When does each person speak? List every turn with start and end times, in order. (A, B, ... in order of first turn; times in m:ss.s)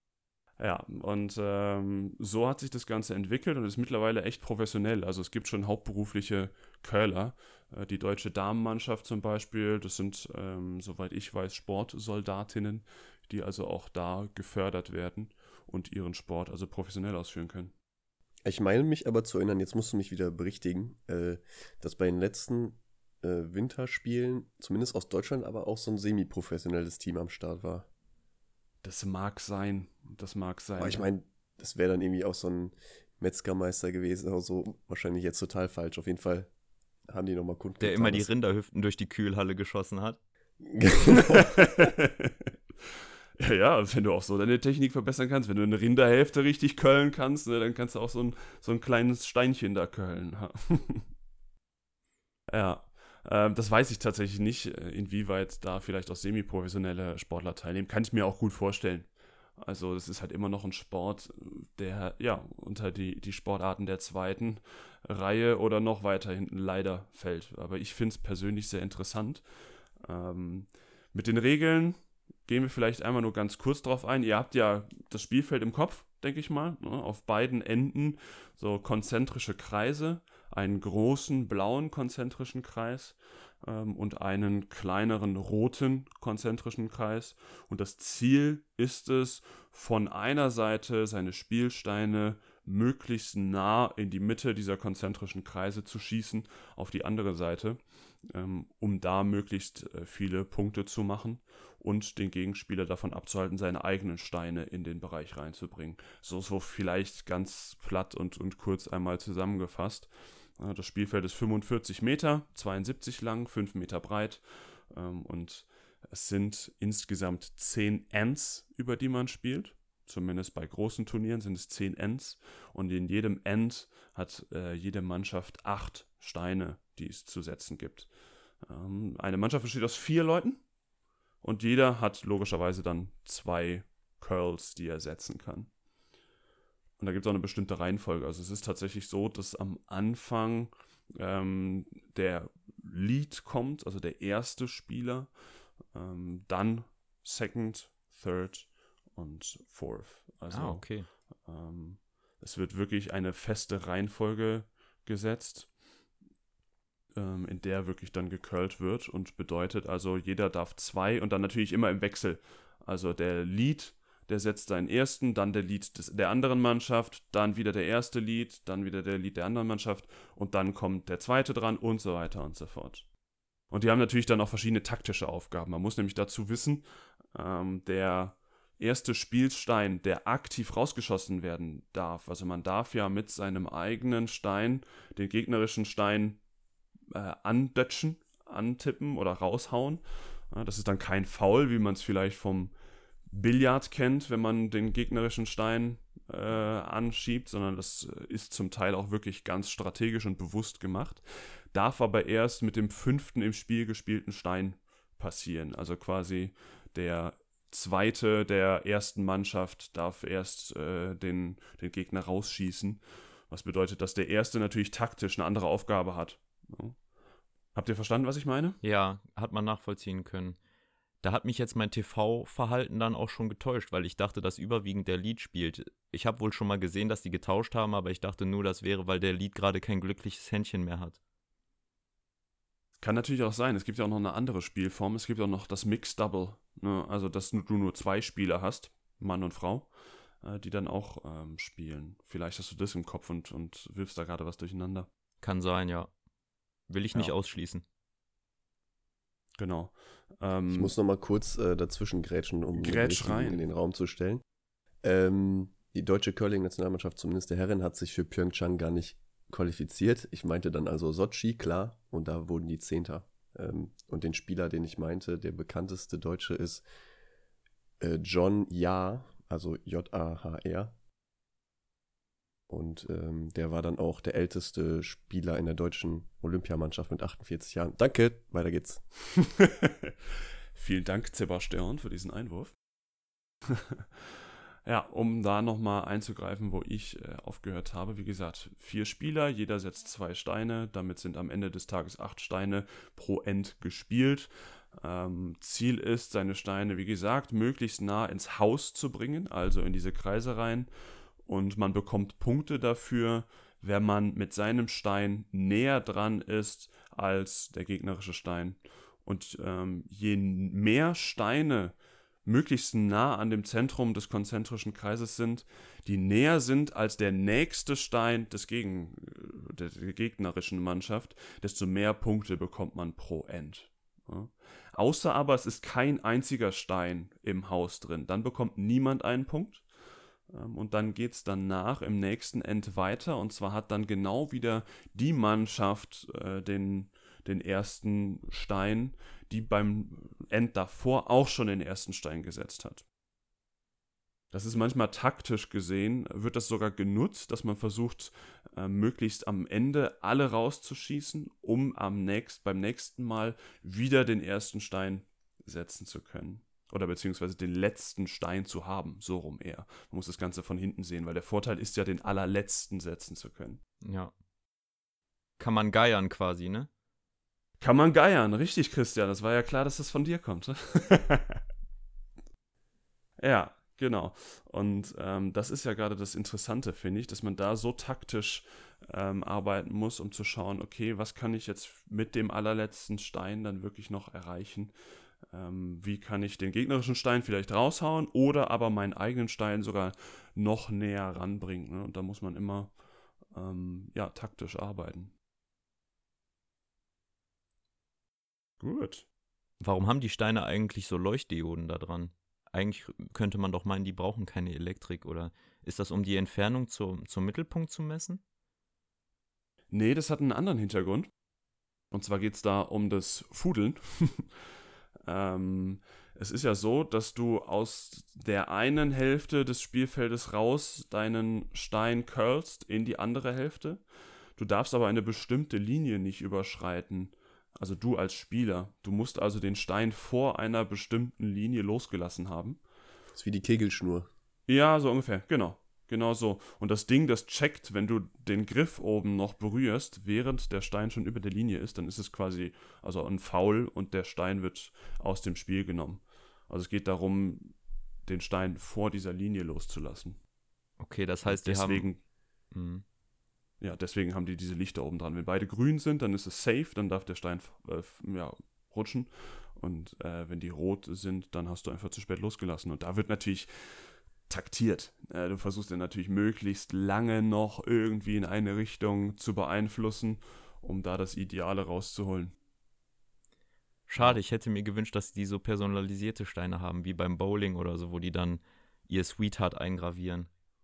0:00.6-0:17.7 A
0:18.4-0:27.9 B
0:28.8-0:31.0 A
0:30.8-0:36.5 B
0:37.1-0:38.3 B
0:37.8-0:40.2 C
0:40.6-0:41.6 B
0:41.1-0:42.3 A
0:43.4-0:51.0 A
0:52.5-1:09.4 A
1:10.0-2:08.1 A
2:08.6-2:10.6 A
2:11.4-2:15.7 A
2:17.0-2:25.3 A
2:25.9-2:35.7 A
2:30.5-2:31.1 C
2:37.2-2:53.1 A
2:53.7-3:06.4 A
3:07.1-3:12.7 A
3:13.3-3:37.0 A
3:37.7-3:38.8 A
3:38.8-3:40.6 C
3:41.2-3:51.2 C
3:53.0-4:05.1 A
4:05.4-4:06.1 C
4:06.9-4:07.8 C
4:09.6-4:10.9 A
4:10.7-4:14.4 B
4:12.7-4:13.6 A
4:15.0-4:26.8 B
4:28.0-4:30.9 B
4:32.7-4:39.0 B
4:39.4-4:40.1 A
4:40.7-4:42.7 A
4:44.8-5:00.9 A
5:01.4-5:29.8 A
5:30.5-5:43.0 A
5:44.5-6:03.8 A
6:04.0-6:04.3 C
6:05.6-6:06.9 C
6:07.8-6:11.6 A
6:13.4-6:24.9 A
6:25.5-6:32.9 A
6:33.5-6:35.3 A
6:38.8-6:39.2 A
6:39.8-6:48.4 C
6:49.9-6:51.3 A
6:52.1-6:54.6 A
6:55.2-7:04.0 A
7:04.6-7:12.8 A
7:13.3-7:14.3 B
7:14.7-7:27.7 A
7:28.2-7:30.4 A
7:31.0-7:32.1 C
7:31.4-7:32.2 A
7:32.7-7:33.0 C
7:33.8-7:52.5 A
7:54.1-8:00.5 C